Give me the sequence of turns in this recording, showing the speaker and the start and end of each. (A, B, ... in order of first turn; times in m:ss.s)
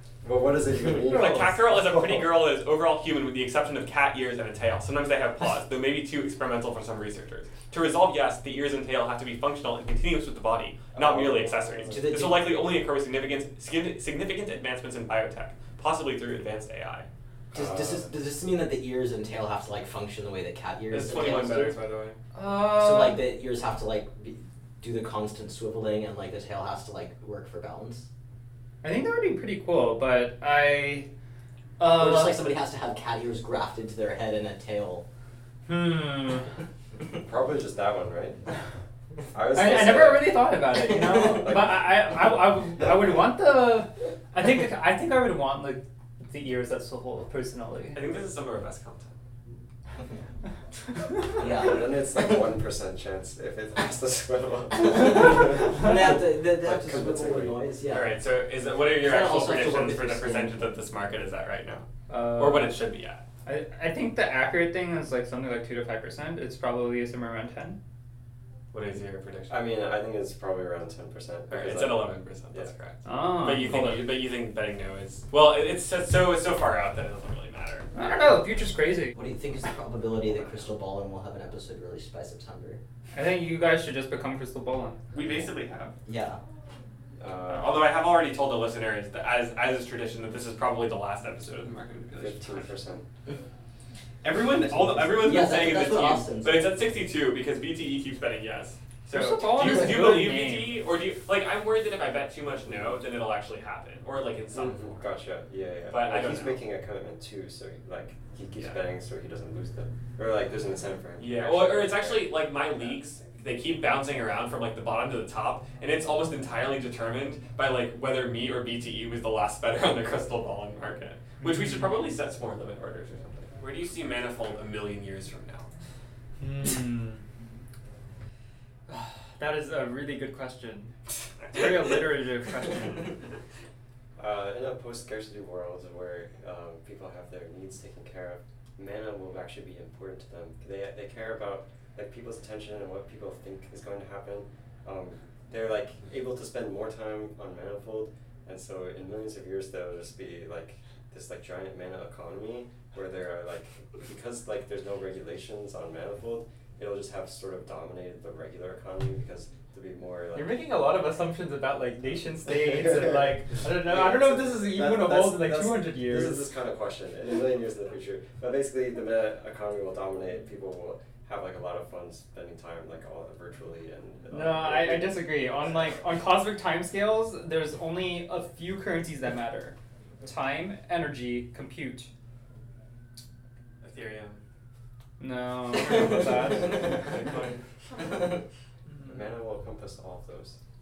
0:00.2-0:01.9 A
0:01.1-0:17.1 B
0:01.1-0:01.5 C
0:11.0-0:12.0 A
0:11.9-0:12.5 D
0:17.5-0:18.1 A
0:17.5-0:21.8 D
0:20.9-0:22.2 B
0:22.3-0:23.2 C
0:22.7-0:28.1 D
0:28.8-0:31.1 C
0:31.8-0:32.4 C
0:31.9-0:35.0 D
0:35.7-0:36.5 C
0:37.2-0:38.4 A
0:39.3-0:41.8 A
0:39.5-0:48.0 C
0:47.9-0:49.1 B
0:51.4-0:52.4 D
0:51.4-0:57.6 A
0:54.7-0:58.2 D
0:57.9-1:03.2 B
0:59.0-1:00.6 D
1:02.1-1:02.8 C
1:03.4-1:07.8 C
1:08.7-1:09.7 B
1:09.5-1:12.7 A
1:11.5-1:17.9 B
1:13.0-1:14.1 C
1:17.9-1:19.1 C
1:19.1-1:22.8 D
1:23.1-1:25.1 C
1:25.1-1:26.0 B
1:26.0-1:26.4 D
1:27.2-1:27.8 A
1:27.5-1:32.7 B
1:32.2-1:33.0 A
1:34.2-1:45.0 B
1:35.1-1:36.7 D
1:39.1-1:40.8 C
1:44.6-1:52.4 A
1:45.9-1:46.6 B
1:51.2-2:05.7 B
2:01.4-2:01.9 C
2:06.4-2:07.2 C
2:08.9-2:10.9 C
2:11.5-2:13.2 C
2:14.2-2:40.6 A
2:40.3-2:46.4 C
2:42.6-2:56.0 A
2:54.3-3:02.1 C
3:03.8-3:04.4 B
3:05.2-3:07.1 C
3:06.5-3:07.6 B
3:09.0-3:09.2 C
3:09.1-3:10.6 A